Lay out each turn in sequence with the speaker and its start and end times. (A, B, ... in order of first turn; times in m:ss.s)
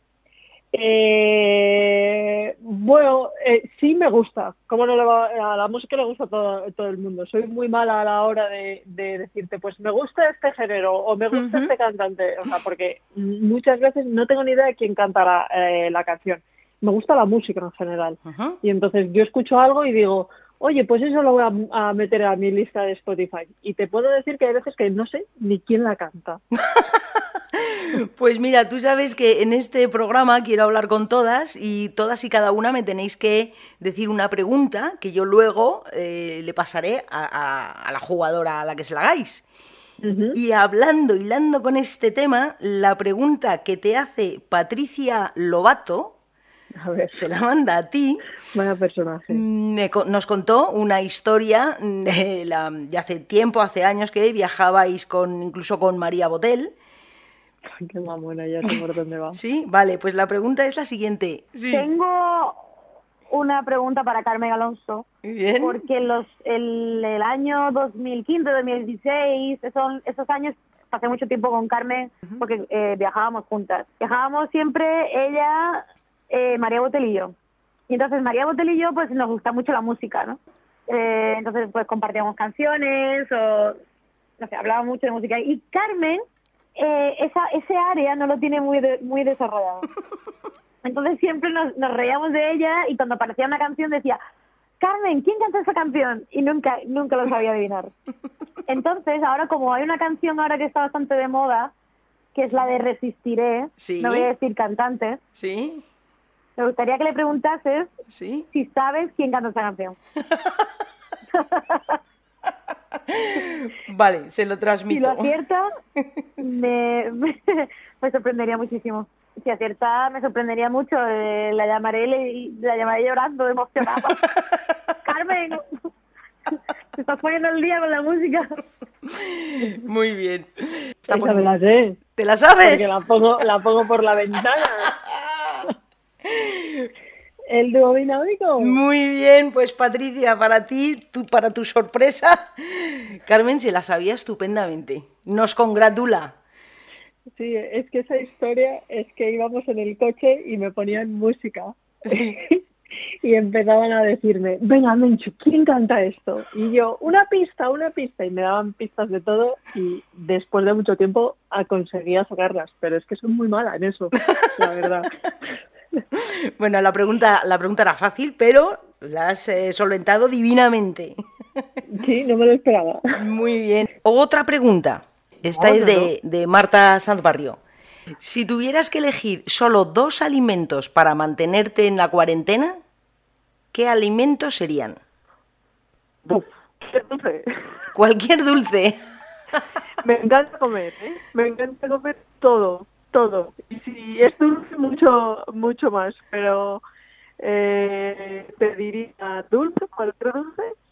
0:00.7-0:26.4 A
0:11.3-0:11.7 B
0:18.3-0:18.6 B
0:26.6-0:39.4 B
0:40.0-0:40.4 A
0:40.3-0:46.2 B
0:46.8-0:47.2 A
0:47.2-0:48.2 B
0:48.5-0:49.4 A
0:49.3-0:56.7 B
0:57.8-0:59.4 A
0:59.3-1:01.9 B
1:01.7-1:02.6 C
1:03.3-1:05.1 C
1:05.2-1:05.8 B
1:05.6-1:17.3 C
1:17.9-1:23.8 C
1:24.4-1:26.2 C
1:26.8-1:29.9 C
1:30.8-1:34.2 C
1:34.8-1:37.9 C
1:38.7-1:41.7 C
1:42.4-1:45.2 C
1:43.8-1:44.3 B
1:45.4-1:45.8 B
1:46.6-1:47.9 C
1:48.1-1:48.5 B
1:48.5-1:50.0 C
1:50.3-1:50.7 B
1:51.4-1:51.9 C
1:53.1-1:55.3 B
1:54.9-1:55.7 C
1:56.4-2:04.2 C
2:05.0-2:05.7 C
2:07.0-2:08.5 C
2:09.1-2:11.5 B
2:11.1-2:12.0 A
2:12.2-2:12.8 B
2:12.6-2:14.9 A
2:15.1-2:15.6 B
2:16.4-2:16.9 B
2:17.5-2:18.8 A
2:18.6-2:26.4 B
2:27.4-2:32.6 A
2:32.1-2:32.4 B
2:33.2-2:45.1 A
2:46.2-2:51.6 B
2:51.9-2:53.0 A
2:53.2-2:57.6 B
2:55.6-2:56.1 D
2:58.2-3:02.8 B
3:03.7-3:05.0 B
3:06.3-3:07.5 D
3:08.0-3:09.0 B
3:10.0-3:16.8 D
3:17.4-3:20.8 D